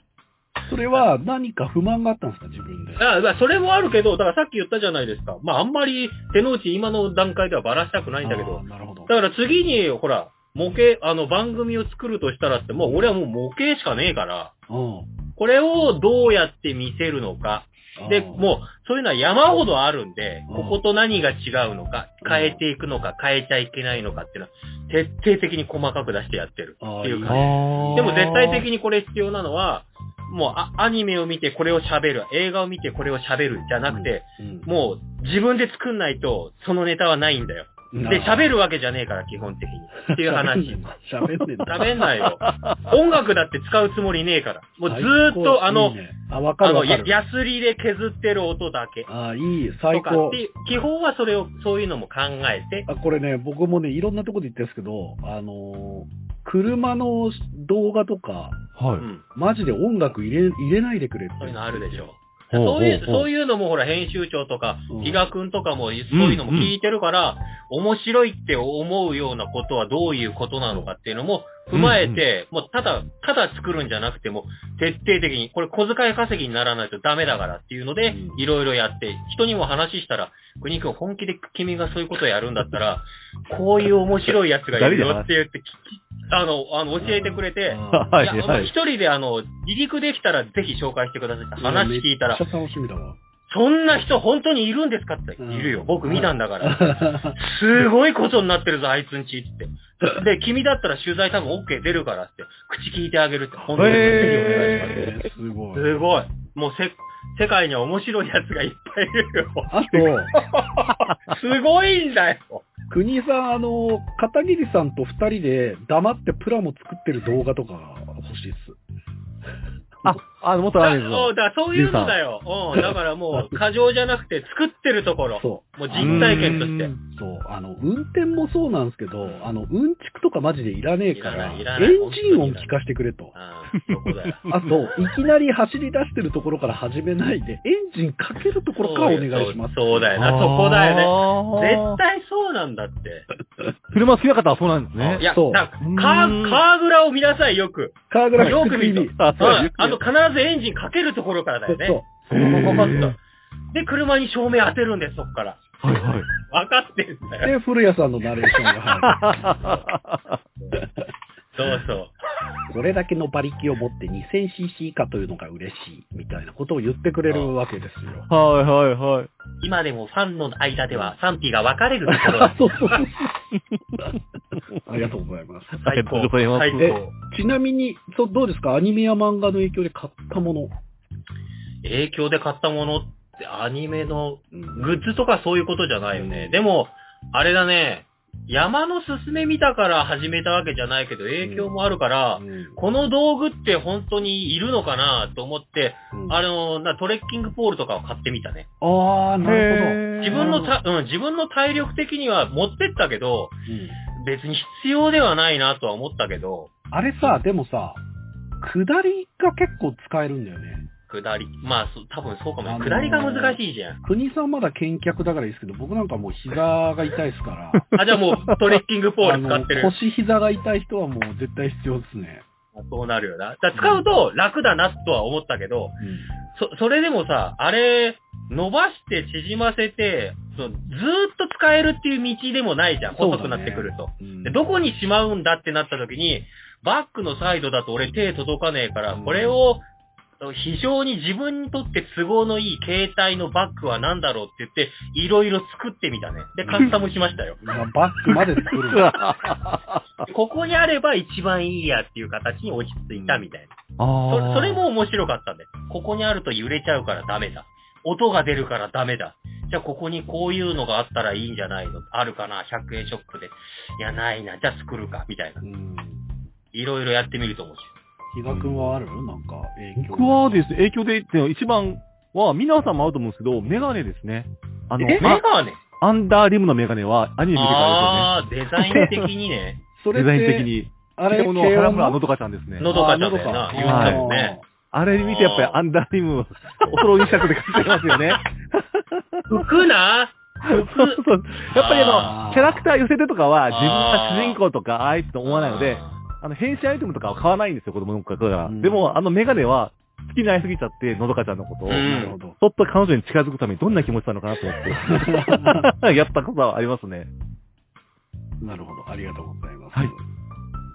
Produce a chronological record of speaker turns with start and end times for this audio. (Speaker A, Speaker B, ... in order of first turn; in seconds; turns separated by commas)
Speaker A: 0.7-3.0, Speaker B: 3.0-14.5, Speaker A: 8.2-9.1, Speaker A: 12.8-13.1, Speaker A: 14.7-15.1, Speaker B: 15.3-40.8, Speaker A: 18.0-18.5, Speaker A: 20.5-20.8, Speaker A: 22.2-22.6, Speaker A: 26.8-28.6, Speaker C: 27.3-28.3, Speaker A: 33.9-34.7, Speaker A: 37.9-38.5, Speaker A: 40.1-42.0, Speaker B: 41.7-46.0, Speaker C: 42.4-42.9, Speaker A: 44.9-47.1, Speaker B: 46.6-49.1, Speaker A: 49.1-50.4, Speaker B: 49.9-52.9, Speaker A: 52.9-58.6, Speaker C: 58.8-59.0, Speaker B: 59.0-59.2, Speaker A: 59.3-62.1, Speaker B: 61.4-92.4, Speaker C: 62.5-63.3, Speaker A: 64.9-65.2, Speaker C: 66.1-66.7, Speaker C: 71.7-72.2, Speaker A: 78.0-78.4, Speaker C: 84.3-85.3, Speaker A: 87.0-88.2, Speaker C: 87.9-88.7, Speaker A: 91.6-93.2, Speaker B: 93.5-105.1, Speaker A: 95.4-97.4, Speaker A: 103.5-105.9, Speaker C: 103.8-105.1, Speaker B: 105.7-109.8, Speaker A: 109.7-110.3, Speaker B: 110.3-112.6, Speaker A: 112.9-118.8, Speaker C: 120.0-122.2, Speaker B: 120.8-126.9, Speaker A: 123.3-123.6, Speaker A: 125.4-133.3, Speaker C: 126.0-127.0, Speaker B: 131.1-132.7, Speaker B: 133.3-134.5, Speaker C: 133.7-134.7, Speaker A: 134.5-140.2, Speaker B: 138.8-143.3, Speaker C: 140.2-142.0, Speaker C: 143.9-145.2, Speaker B: 145.0-153.2, Speaker A: 145.2-145.7, Speaker C: 145.8-146.6, Speaker A: 148.1-149.7, Speaker C: 149.2-149.9, Speaker A: 151.7-152.1, Speaker C: 152.3-153.2, Speaker B: 153.7-155.7, Speaker C: 155.8-156.3, Speaker B: 156.4-157.5, Speaker A: 157.4-159.6, Speaker C: 159.0-160.4, Speaker B: 161.5-162.1, Speaker A: 162.7-168.3, Speaker C: 168.3-169.3, Speaker B: 169.6-173.0, Speaker A: 170.9-171.2, Speaker A: 172.1-173.3, Speaker A: 174.8-175.8, Speaker C: 175.8-176.9, Speaker B: 175.8-177.1, Speaker A: 176.8-180.7, Speaker B: 181.8-198.7, Speaker A: 184.5-185.0, Speaker A: 186.1-186.6, Speaker A: 191.4-191.8, Speaker A: 192.4-192.8, Speaker A: 196.1-196.4, Speaker A: 198.8-200.7, Speaker C: 199.4-200.7, Speaker B: 200.2-203.6, Speaker A: 203.7-204.0, Speaker B: 204.2-206.7, Speaker A: 206.9-208.0, Speaker A: 208.6-210.9, Speaker B: 211.1-214.0, Speaker A: 212.6-217.8, Speaker C: 217.7-218.5, Speaker B: 217.9-219.9, Speaker A: 219.2-222.4, Speaker B: 222.7-226.0, Speaker A: 226.0-226.3, Speaker B: 226.5-239.8, Speaker A: 233.1-234.6, Speaker A: 239.1-239.6, Speaker B: 240.4-247.6, Speaker A: 246.6-247.0, Speaker A: 247.6-249.2, Speaker C: 248.2-250.2, Speaker B: 250.3-253.7, Speaker A: 253.1-253.5, Speaker C: 254.0-254.8, Speaker B: 254.3-265.6, Speaker A: 265.6-266.2, Speaker B: 266.7-267.9, Speaker A: 268.3-270.6, Speaker C: 268.5-269.0, Speaker C: 270.0-275.4, Speaker A: 275.0-275.2, Speaker B: 275.1-275.8, Speaker C: 276.0-278.3, Speaker B: 277.5-279.8, Speaker C: 278.9-279.2, Speaker A: 279.9-282.2, Speaker C: 280.1-282.9, Speaker B: 282.8-284.6, Speaker A: 282.8-284.6, Speaker C: 283.7-284.2, Speaker C: 284.9-289.7, Speaker B: 285.1-285.8, Speaker B: 287.8-288.5, Speaker B: 289.5-291.2, Speaker C: 290.6-307.3, Speaker B: 291.7-292.3, Speaker A: 292.1-292.9, Speaker B: 293.7-294.6, Speaker B: 295.4-296.2, Speaker A: 298.6-299.1, Speaker B: 301.9-302.4, Speaker A: 302.0-302.6, Speaker A: 304.9-305.9, Speaker A: 308.6-310.2